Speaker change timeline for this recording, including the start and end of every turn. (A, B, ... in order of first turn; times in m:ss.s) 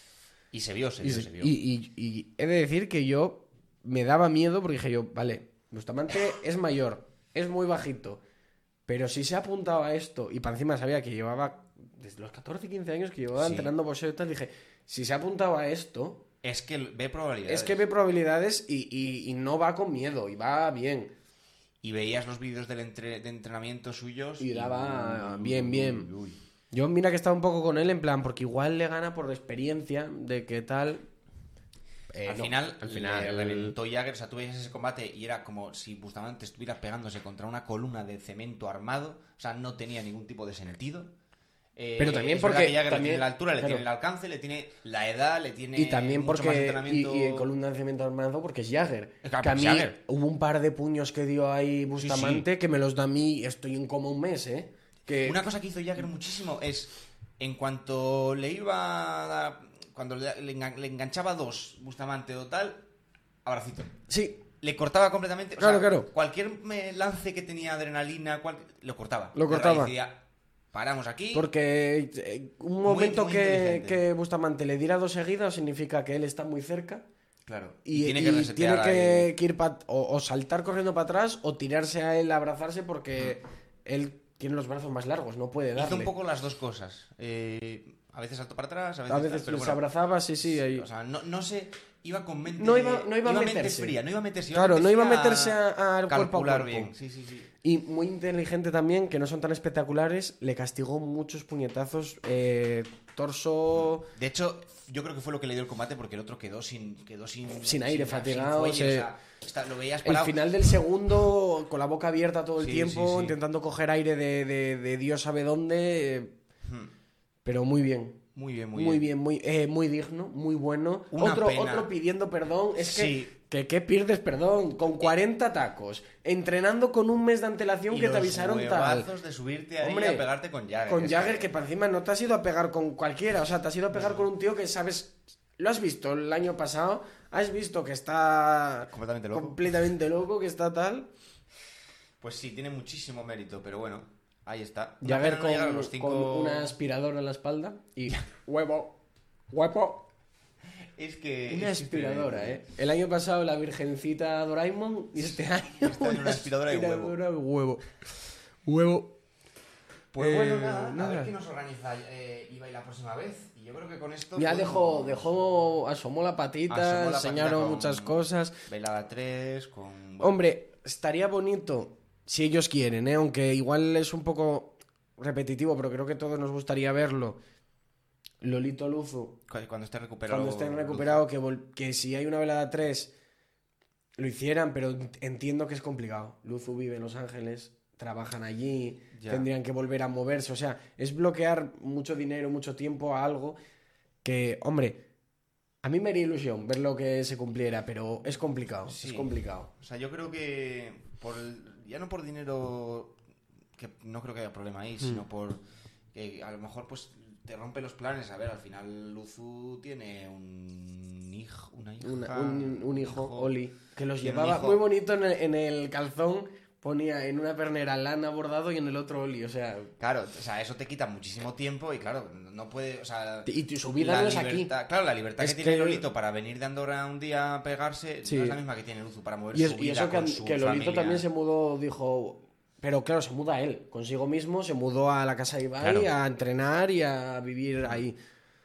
0:00.5-0:01.6 A
0:01.0-0:08.2 B
0:08.9-0:16.2 B
0:13.4-0:13.7 A
0:16.4-0:17.8 A
0:17.5-0:21.1 B
0:21.8-0:26.4 A
0:24.4-0:26.1 B
0:26.7-0:31.0 B
0:32.1-0:33.7 B
0:32.2-0:41.1 A
0:41.8-0:47.5 A
0:42.0-0:43.8 B
0:45.8-0:55.4 B
0:49.2-0:50.0 A
0:52.0-0:52.5 A
0:55.2-1:02.8 A
1:03.4-1:03.9 A
1:04.1-1:04.4 B
1:04.6-1:10.2 A
1:05.6-1:06.1 B
1:09.3-1:09.9 B
1:10.7-1:11.5 A
1:11.3-1:17.0 B
1:12.8-1:14.0 A
1:17.4-1:19.3 A
1:17.9-1:26.1 B
1:25.8-1:29.8 A
1:29.1-1:30.9 B
1:30.4-1:37.5 A
1:32.5-1:34.0 B
1:34.5-1:36.9 B
1:37.6-1:44.0 B
1:43.8-1:50.4 A
1:47.6-1:49.1 B
1:50.0-1:56.3 B
1:52.6-1:53.4 A
1:56.6-1:56.9 A
1:57.4-1:58.2 B
1:58.4-1:59.0 A
1:58.7-2:09.1 B
2:01.1-2:01.9 A
2:02.8-2:03.3 A
2:07.9-2:11.5 A
2:09.8-2:10.2 B
2:10.9-2:21.1 B
2:13.9-2:14.3 A
2:18.9-2:19.7 A
2:22.2-2:26.8 A
2:25.0-2:30.1 B
2:30.8-2:32.7 A
2:31.5-2:38.0 B
2:35.8-2:37.2 A
2:38.6-2:39.1 B
2:40.1-2:45.3 A
2:40.2-2:41.3 B
2:44.4-2:48.6 B
2:46.7-2:50.4 A
2:50.2-2:57.4 B
2:58.4-2:59.4 B
2:59.5-3:01.2 A
3:00.3-3:03.1 B
3:04.2-3:13.6 B
3:09.1-3:09.5 A
3:14.2-3:15.0 B
3:15.8-3:19.7 B
3:18.8-3:23.2 A
3:23.8-3:25.6 A
3:26.1-3:33.5 A
3:32.0-3:39.9 B
3:34.2-3:34.8 A
3:40.0-3:51.2 A
3:43.4-3:44.7 B
3:45.4-3:46.0 B
3:48.2-3:48.6 B
3:49.5-3:58.2 B
3:55.8-3:56.1 A